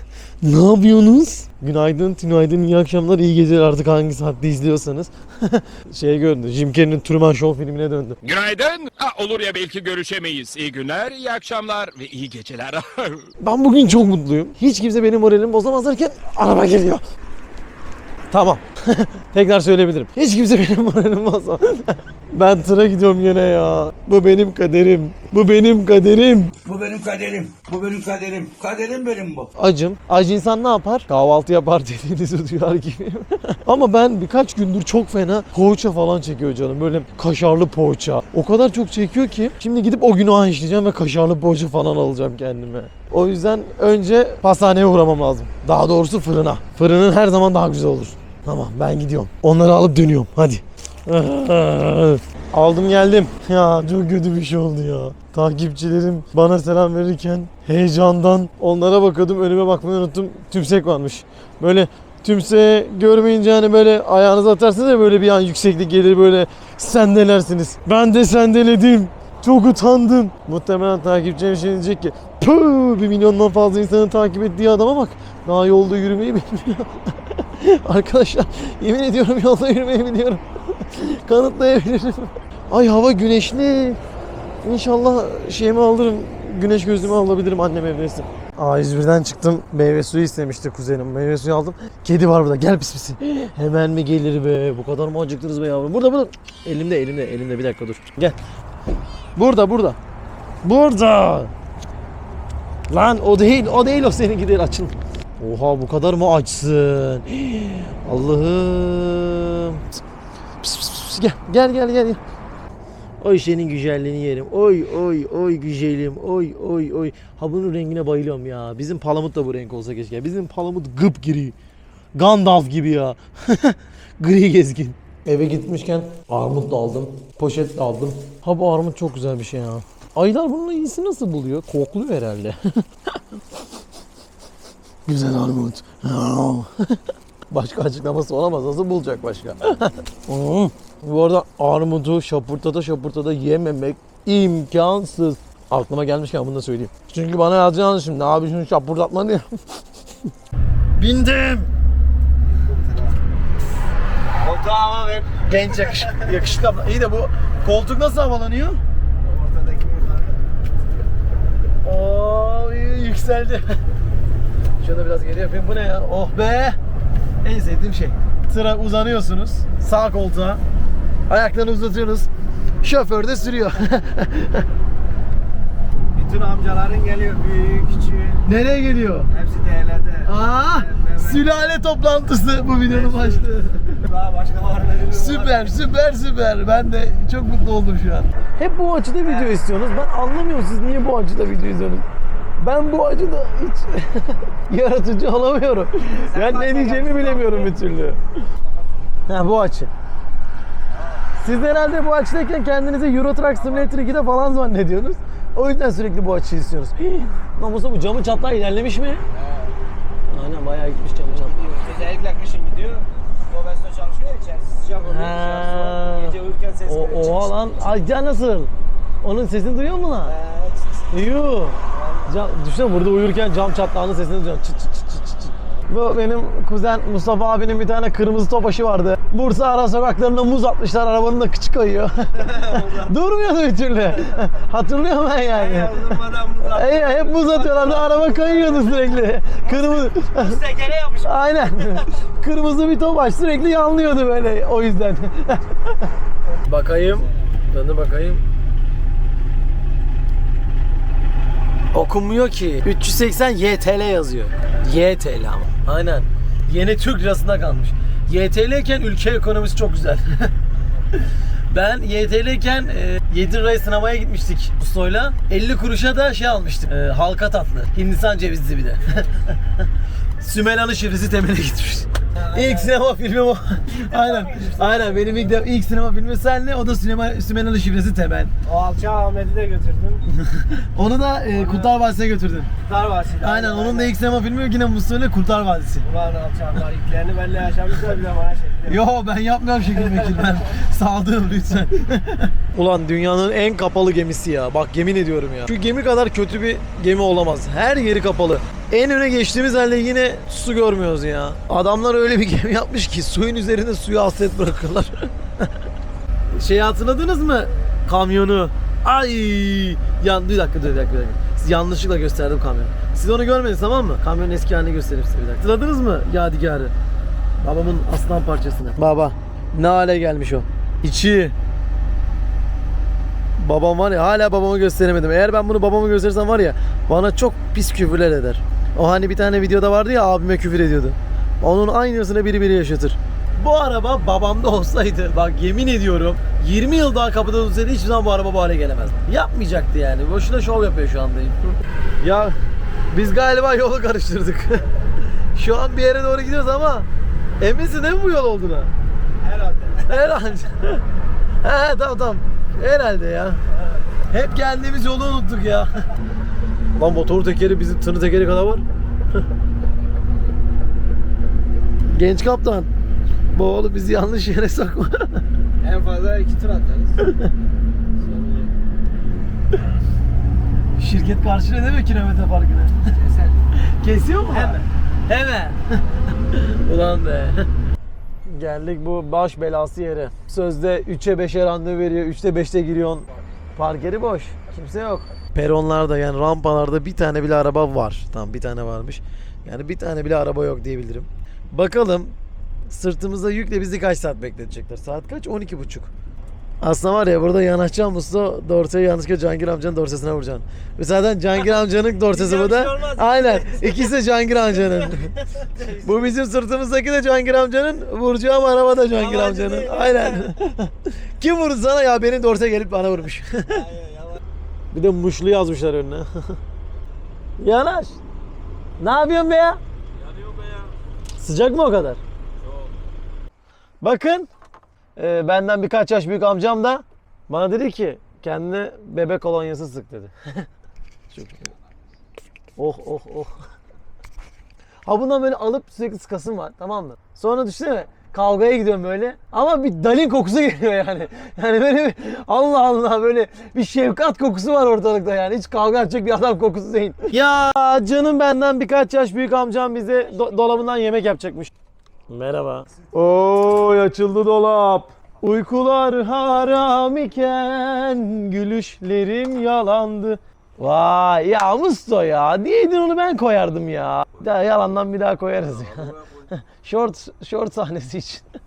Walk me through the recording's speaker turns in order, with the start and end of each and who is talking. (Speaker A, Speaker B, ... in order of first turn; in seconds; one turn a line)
Speaker A: 0.4-8.2
Speaker B: 8.2-13.3
Speaker A: 13.4-17.0
Speaker A: 18.3-26.5
Speaker C: 26.6-29.5
Speaker A: 29.6-84.0
Speaker A: 84.6-98.4
Speaker A: 99.3-100.0
Speaker A: 100.6-101.5
Speaker A: 102.9-110.0
Speaker A: 110.6-112.2
Speaker A: 113.2-121.5
Speaker A: 122.1-132.8
Speaker A: 135.1-137.0
Speaker A: 137.5-149.8
Speaker A: 150.9-151.7
Speaker D: 152.4-153.2
Speaker D: 154.4-156.3
Speaker A: 155.4-158.8
Speaker D: 159.2-160.4
Speaker A: 161.8-163.8
Speaker A: 164.8-166.8
Speaker A: 167.4-170.6
Speaker A: 171.3-172.3
Speaker A: 172.8-174.7
Speaker D: 176.1-178.5
Speaker A: 178.4-179.3
Speaker D: 179.3-181.6
Speaker A: 180.2-184.0
Speaker D: 182.8-183.5
Speaker D: 184.0-185.8
Speaker A: 185.1-192.1
Speaker D: 189.2-189.6
Speaker A: 192.6-198.2
Speaker D: 196.1-197.8
Speaker D: 198.6-199.1
Speaker A: 199.3-199.9
Speaker D: 200.9-201.2
Speaker A: 201.4-209.2
Speaker D: 203.6-203.9
Speaker D: 209.3-209.7
Speaker A: 210.3-211.5
Speaker D: 211.3-218.0
Speaker A: 215.0-218.7
Speaker A: 219.2-220.3
Speaker D: 220.2-221.2
Speaker A: 221.1-240.6
Speaker D: 221.9-222.5
Speaker D: 232.4-233.1
Speaker D: 235.5-242.1
Speaker A: 241.2-245.9
Speaker A: 246.7-248.4
Speaker A: 251.9-260.5
Speaker A: 261.7-269.6
Speaker A: 270.4-278.5
Speaker D: 272.3-272.9
Speaker D: 274.1-275.5
Speaker D: 278.6-280.2
Speaker A: 280.3-282.7
Speaker D: 281.5-281.9
Speaker D: 282.8-284.1
Speaker A: 283.4-286.1
Speaker D: 286.0-289.0
Speaker A: 288.9-305.7
Speaker D: 289.9-290.6
Speaker A: 306.5-316.9
Speaker A: 317.6-321.5
Speaker A: 323.6-341.7
Speaker A: 342.2-342.6
Speaker A: 343.1-344.9
Speaker A: 345.5-347.1
Speaker A: 347.6-348.9
Speaker D: 349.4-350.3
Speaker A: 350.1-351.0
Speaker A: 351.6-353.6
Speaker A: 354.3-356.1
Speaker A: 356.9-358.8
Speaker A: 362.1-362.9
Speaker A: 363.5-365.4
Speaker D: 365.8-367.2
Speaker D: 368.2-368.7
Speaker A: 371.0-373.1
Speaker D: 373.1-373.6
Speaker A: 373.8-377.7
Speaker D: 374.4-374.8
Speaker A: 378.4-392.3
Speaker A: 392.9-396.1
Speaker A: 396.8-405.3
Speaker D: 402.3-404.1
Speaker D: 404.9-406.2
Speaker A: 405.9-413.9
Speaker D: 409.1-410.5
Speaker D: 413.8-414.4
Speaker A: 414.9-416.6
Speaker A: 417.6-418.2
Speaker A: 419.0-419.8
Speaker A: 421.4-422.2
Speaker A: 424.0-424.5
Speaker A: 425.1-430.7
Speaker A: 431.3-431.7
Speaker A: 432.8-433.5
Speaker A: 435.0-451.7
Speaker A: 452.3-468.4
Speaker C: 465.8-466.4